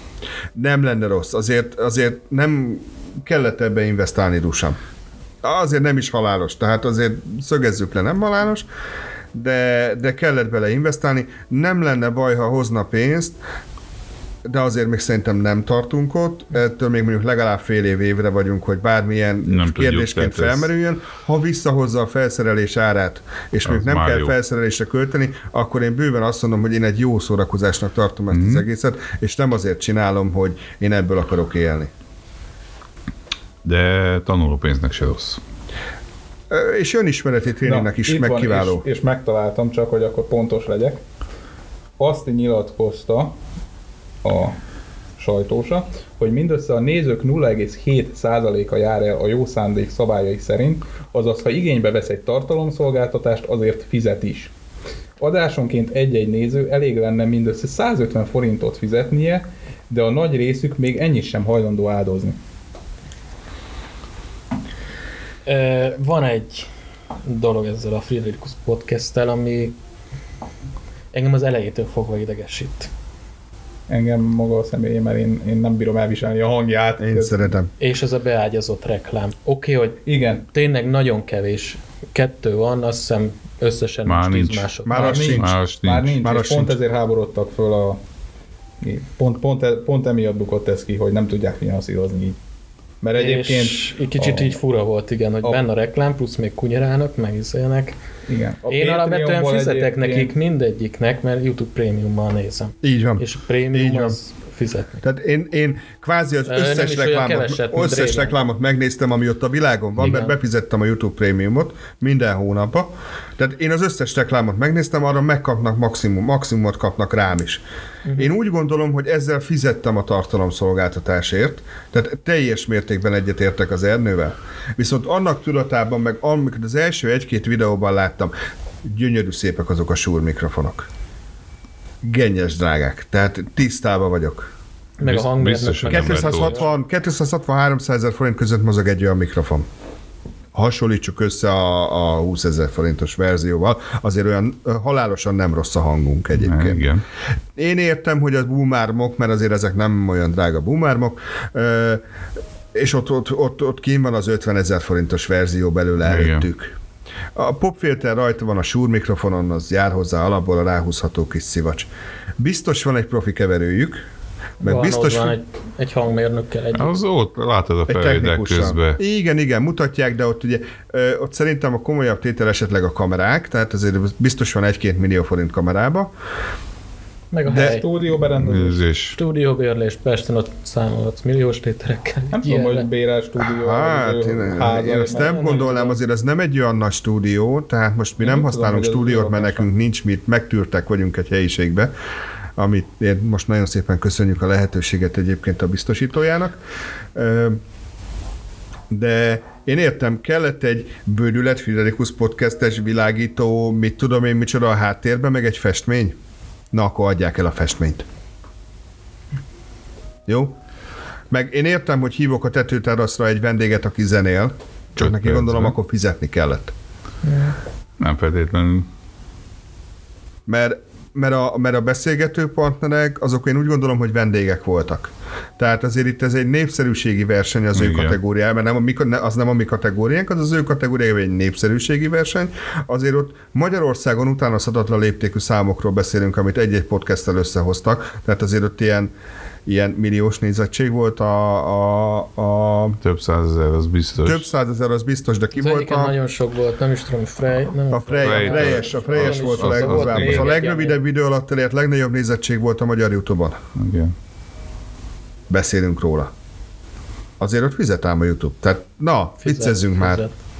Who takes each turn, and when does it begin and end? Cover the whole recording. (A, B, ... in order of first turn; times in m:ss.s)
0:00.6-0:04.8 A
0:05.4-0:08.7 A
0:09.3-0:13.4 A
0:14.4-0:31.9 A
0:19.5-0:20.7 B
0:23.7-0:24.3 B
0:28.3-0:28.6 B
0:33.6-0:35.4 B
0:36.5-0:38.8 A
0:37.6-0:41.0 C
0:42.0-0:43.4 C
0:44.2-0:44.6 C
0:45.2-0:54.5 C
0:55.2-1:02.4 C
1:05.5-1:06.7 D
1:07.2-1:09.8 D
1:11.1-1:12.9 D
1:13.9-1:17.5 C
1:17.0-1:17.7 A
1:17.8-1:25.4 D
1:20.1-1:20.5 C
1:24.1-1:24.7 B
1:24.9-1:25.6 A
1:24.9-1:28.0 C
1:25.4-1:26.2 B
1:26.2-1:26.8 A
1:28.8-1:32.4 C
1:33.0-1:34.6 C
1:33.2-1:38.0 D
1:38.3-1:40.3 C
1:38.7-1:45.0 D
1:42.8-1:44.2 A
1:45.0-1:57.6 A
1:46.5-1:48.4 D
1:50.0-1:50.3 D
1:58.0-1:58.3 D
1:58.2-2:08.3 A
2:08.8-2:10.9 A
2:12.0-2:14.5 A
2:15.0-2:16.7 D
2:15.0-2:16.6 B
2:15.9-2:19.7 A
2:20.5-2:26.9 A
2:26.4-2:27.0 B
2:27.6-2:32.0 A
2:32.7-2:36.8 A
2:36.0-2:36.5 B
2:37.4-2:44.0 A
2:44.6-2:45.4 A
2:44.6-2:47.0 D
2:46.8-2:49.0 B
2:47.9-2:56.1 A
2:57.3-2:57.9 D
2:57.5-2:58.8 C
2:58.4-2:59.2 B
2:59.1-3:02.9 D
3:02.3-3:06.0 C
3:03.4-3:11.9 A
3:08.2-3:09.7 C
3:12.6-3:16.6 A
3:17.2-3:17.6 A
3:18.9-3:26.2 A
3:26.7-3:28.0 A
3:30.3-3:30.6 A
3:31.3-3:36.7 A
3:35.0-3:35.8 B
3:37.2-3:37.6 D
3:38.0-3:38.9 B
3:40.5-3:59.1 A
3:47.8-3:48.2 B
3:59.7-4:03.0 A
4:03.0-4:04.4 B
4:04.2-4:06.2 A
4:05.6-4:11.0 D
4:07.9-4:13.6 A
4:08.2-4:10.5 B
4:13.8-4:14.1 B
4:15.5-4:16.3 A
4:17.4-4:20.2 A
4:19.4-4:20.3 D